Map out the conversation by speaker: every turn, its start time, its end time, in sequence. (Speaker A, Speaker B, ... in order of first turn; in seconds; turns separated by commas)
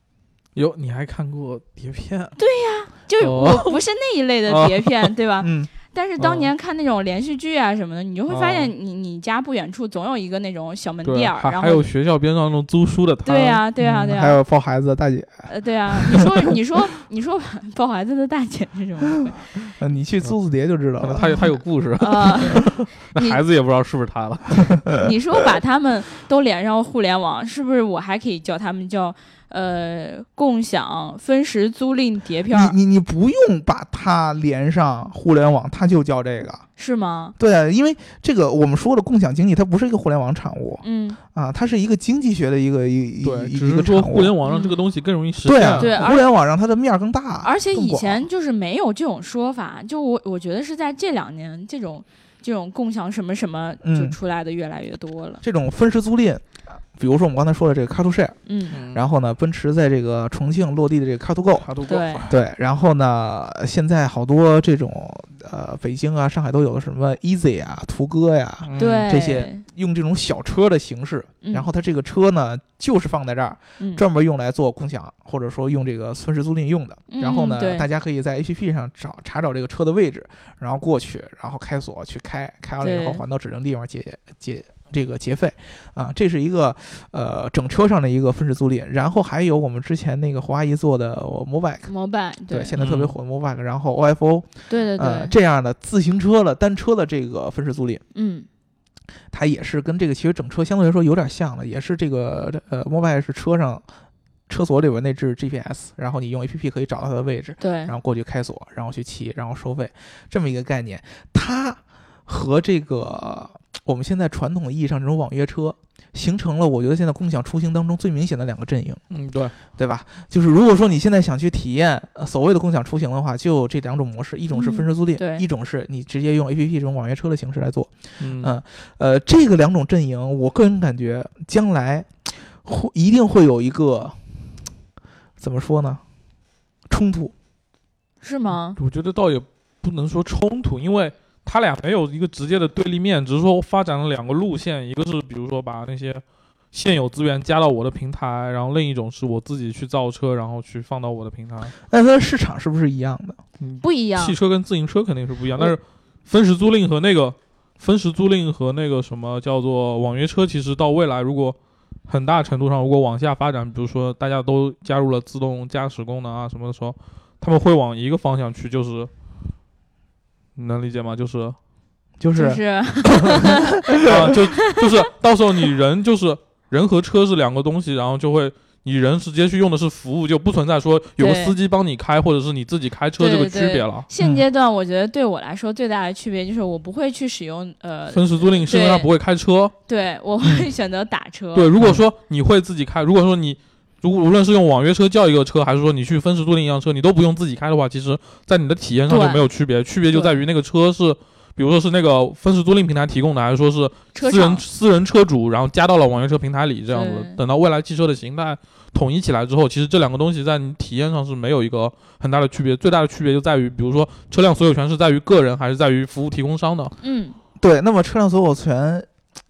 Speaker A: 0.5-2.4, Speaker B: 2.4-11.9, Speaker A: 3.2-3.8, Speaker A: 4.5-5.1, Speaker C: 5.4-5.7, Speaker A: 6.2-6.5, Speaker A: 8.3-8.7, Speaker A: 11.0-13.6, Speaker B: 13.2-14.4, Speaker C: 13.8-16.5, Speaker B: 15.5-19.7, Speaker C: 19.8-21.4, Speaker A: 21.0-24.9, Speaker B: 22.0-23.4, Speaker B: 25.0-32.7, Speaker C: 32.5-36.6, Speaker B: 36.8-37.3, Speaker C: 37.4-44.4, Speaker B: 40.8-41.2, Speaker A: 43.2-45.9, Speaker B: 44.4-44.8, Speaker C: 45.4-48.2, Speaker B: 45.8-46.3, Speaker B: 47.4-55.4, Speaker C: 53.8-54.1, Speaker C: 55.4-58.4, Speaker B: 58.5-58.8, Speaker A: 58.7-59.0, Speaker C: 58.9-61.7, Speaker A: 61.6-62.3, Speaker B: 61.8-62.2, Speaker C: 62.3-91.9, Speaker A: 68.6-69.1, Speaker B: 68.8-69.6, Speaker B: 71.4-71.7, Speaker B: 77.1-77.9, Speaker B: 82.8-83.2, Speaker B: 91.9-92.7, Speaker C: 92.5-98.0, Speaker A: 92.8-93.1, Speaker B: 94.7-95.3, Speaker B: 98.1-98.5, Speaker C: 99.3-103.8, Speaker C: 104.5-119.0, Speaker B: 107.6-107.9, Speaker A: 119.1-119.5, Speaker C: 119.7-134.2, Speaker B: 124.5-125.4, Speaker A: 128.2-128.5, Speaker C: 135.4-136.0, Speaker C: 136.9-137.3, Speaker B: 138.2-138.8, Speaker A: 138.8-151.7, Speaker C: 151.8-153.4, Speaker A: 153.6-161.6, Speaker B: 153.8-154.3, Speaker A: 162.1-169.1, Speaker A: 170.6-171.6, Speaker C: 172.2-174.4, Speaker B: 172.3-174.8, Speaker A: 174.0-184.1, Speaker B: 181.2-181.6, Speaker B: 183.2-189.1, Speaker A: 188.1-189.7, Speaker B: 189.9-191.7, Speaker A: 191.5-216.9, Speaker B: 199.1-199.4, Speaker B: 200.1-200.4, Speaker B: 204.1-204.6, Speaker B: 206.9-207.4, Speaker B: 217.0-217.4, Speaker C: 217.6-219.1